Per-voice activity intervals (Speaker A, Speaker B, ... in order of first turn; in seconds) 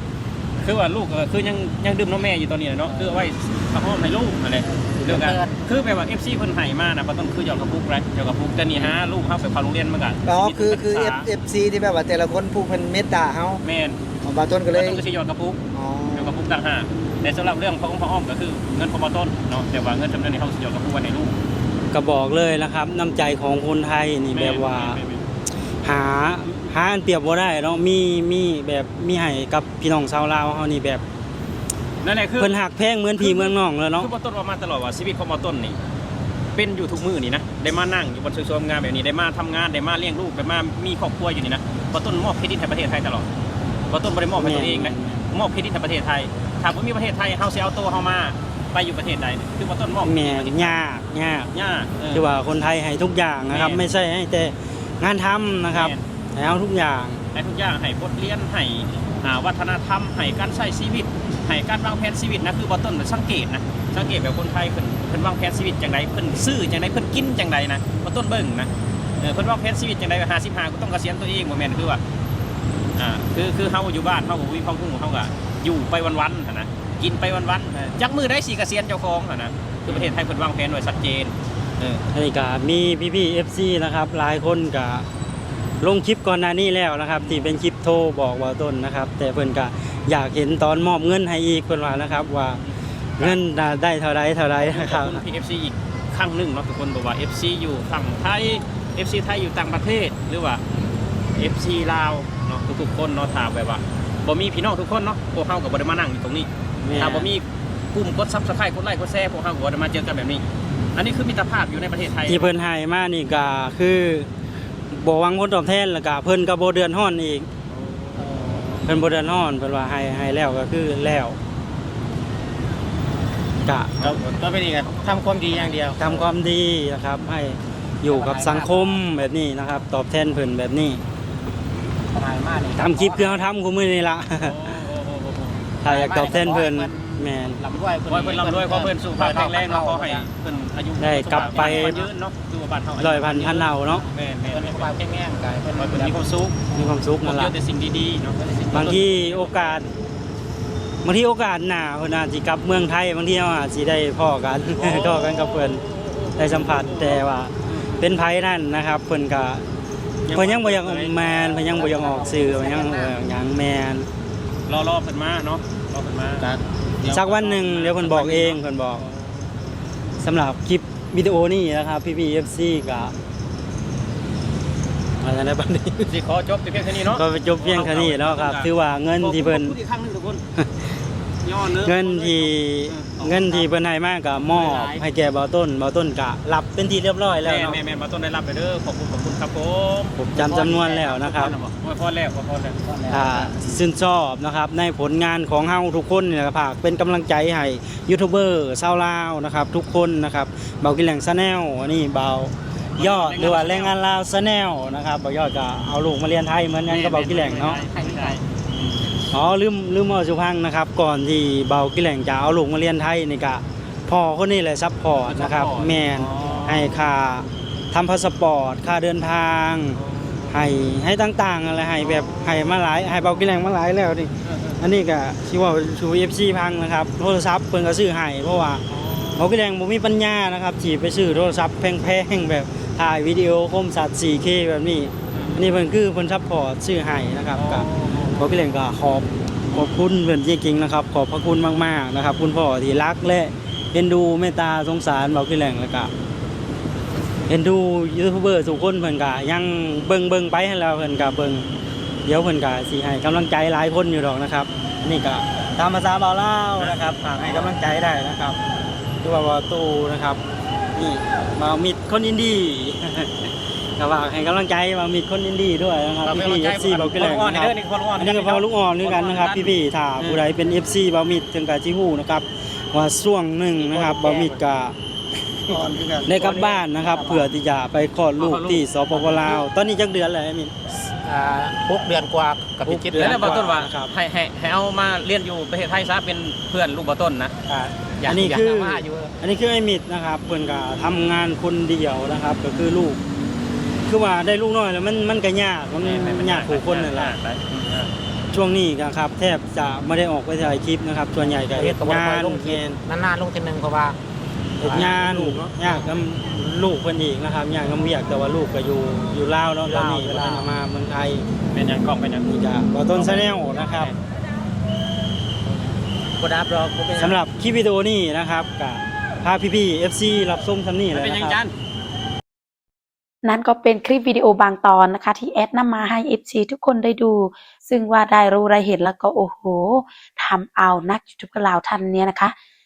Speaker A: 0.6-11.3, 13.6-14.0, 14.7-15.6, 16.1-21.4, 24.3-25.2, 32.0-32.6, 33.2-35.8, 36.5-43.3, 43.9-50.8, 51.5-52.3, 53.5-53.9, 55.7-56.0, 57.3-72.0, 73.0-82.0, 87.2-87.5, 94.6-100.6, 101.3-110.4, 111.0-112.5, 117.8-118.8, 125.5-125.9, 134.4-135.6, 138.1-144.9, 145.8-149.9, 154.7-158.0, 160.4-160.9, 164.7-166.5, 167.5-169.2, 176.1-180.4, 181.4-183.7, 184.5-185.0, 187.4-190.2, 191.3-192.8, 203.0-204.0, 206.9-209.0, 215.2-217.1, 219.9-220.6, 222.0-222.8, 224.4-224.8, 228.9-229.5, 235.3-235.7, 237.5-238.5, 256.8-257.7, 266.2-270.4, 273.7-274.5, 278.4-278.7, 283.2-287.6, 296.0-298.1, 304.9-305.2, 311.7-312.5, 313.1-314.2, 321.1-321.7
Speaker B: 2.9-3.3, 4.7-5.6, 118.2-118.8, 124.1-126.2, 128.1-129.0, 132.1-133.4, 135.8-140.3, 141.3-142.1, 144.4-146.3, 148.4-149.3, 160.5-163.2, 166.4-167.8, 190.4-191.6, 192.8-193.7, 207.9-208.4, 276.4-277.4, 278.6-279.6, 281.2-283.6, 287.7-289.3, 301.7-304.2, 304.8-305.7, 309.8-310.7, 316.4-317.4
Speaker C: 10.2-13.6, 14.2-15.0, 15.7-16.4, 275.7-276.8
Speaker D: 21.9-25.0, 25.8-31.0, 32.4-34.1, 44.4-45.2, 50.0-51.5, 52.1-57.2, 82.1-85.1, 85.8-92.6, 93.2-95.2, 106.8-107.3, 112.3-114.3, 114.9-117.5, 118.8-121.4, 123.7-124.0, 126.0-131.0, 132.8-134.7, 135.8-137.6, 141.0-142.0, 143.0-144.0, 146.7-147.5, 148.7-149.9, 151.0-155.8, 156.4-159.7, 160.3-164.1, 167.1-169.0, 170.2-173.1, 175.2-176.1, 177.0-179.8, 180.6-180.8, 181.7-187.8, 190.2-191.6, 193.1-207.8, 209.3-228.8, 229.4-246.1, 247.5-251.7, 252.2-258.6, 259.2-260.4, 260.9-274.9, 275.7-280.7, 282.9-284.1, 288.2-293.2, 294.1-297.4, 298.5-303.0, 304.8-311.5, 312.4-314.1, 317.2-321.6
Speaker E: 323.4-332.5